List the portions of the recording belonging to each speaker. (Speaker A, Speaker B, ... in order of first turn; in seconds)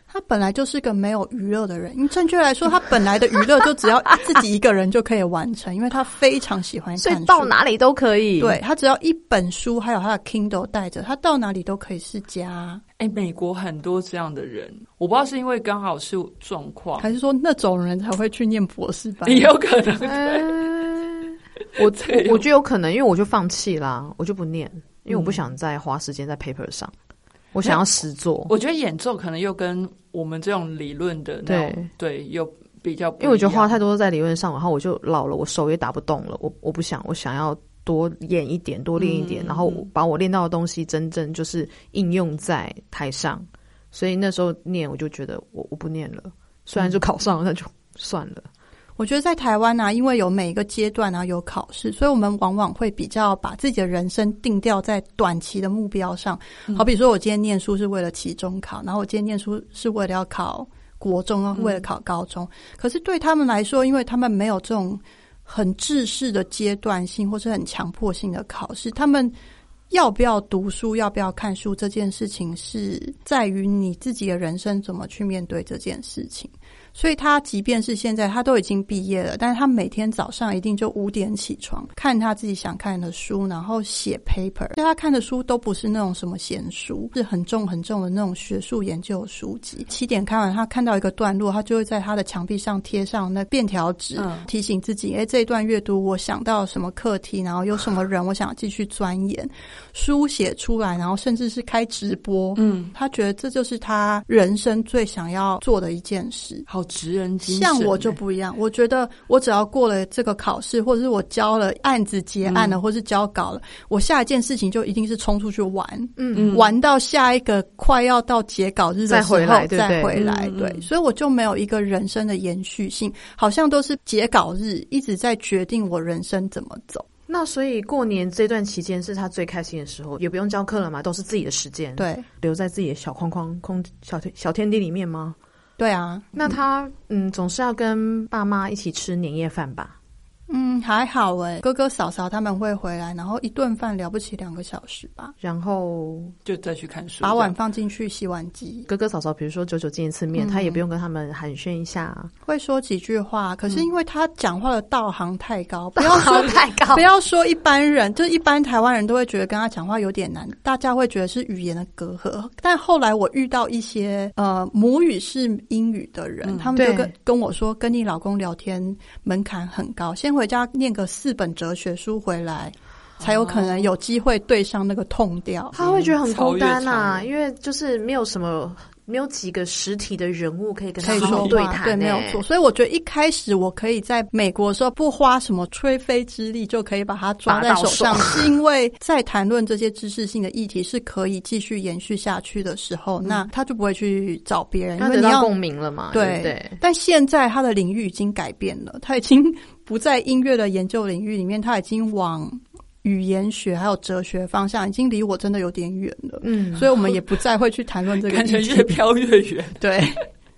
Speaker A: 0.1-7.5, 8.4-12.8, 17.0-19.5, 49.0-69.3, 69.9-106.7, 107.4-127.1, 132.0-132.2, 135.8-136.5, 140.5-145.3, 147.2-148.9, 150.3-150.8, 152.4-175.8, 181.0-195.5, 196.1-209.0, 209.8-210.2
Speaker B: 7.0-8.6, 20.0-26.9, 27.5-28.5, 31.4-31.9, 33.2-48.5, 116.2-116.5, 119.1-120.2, 127.3-135.3, 136.3-139.9, 145.4-146.3, 148.9-152.3, 156.0-157.1, 166.8-167.1, 175.7-182.4, 187.5-188.5, 195.0-196.8, 206.4-206.9
Speaker C: 13.0-17.1, 19.2-20.6, 21.8-22.4, 25.1-25.4, 28.5-33.8, 39.0-39.9, 61.5-61.8, 94.2-94.5, 102.5-102.9, 106.7-108.2, 112.4-112.8, 116.3-116.7, 120.2-120.8, 146.4-147.6, 166.4-166.7, 173.2-173.9, 175.7-177.3, 181.1-181.6, 208.2-210.0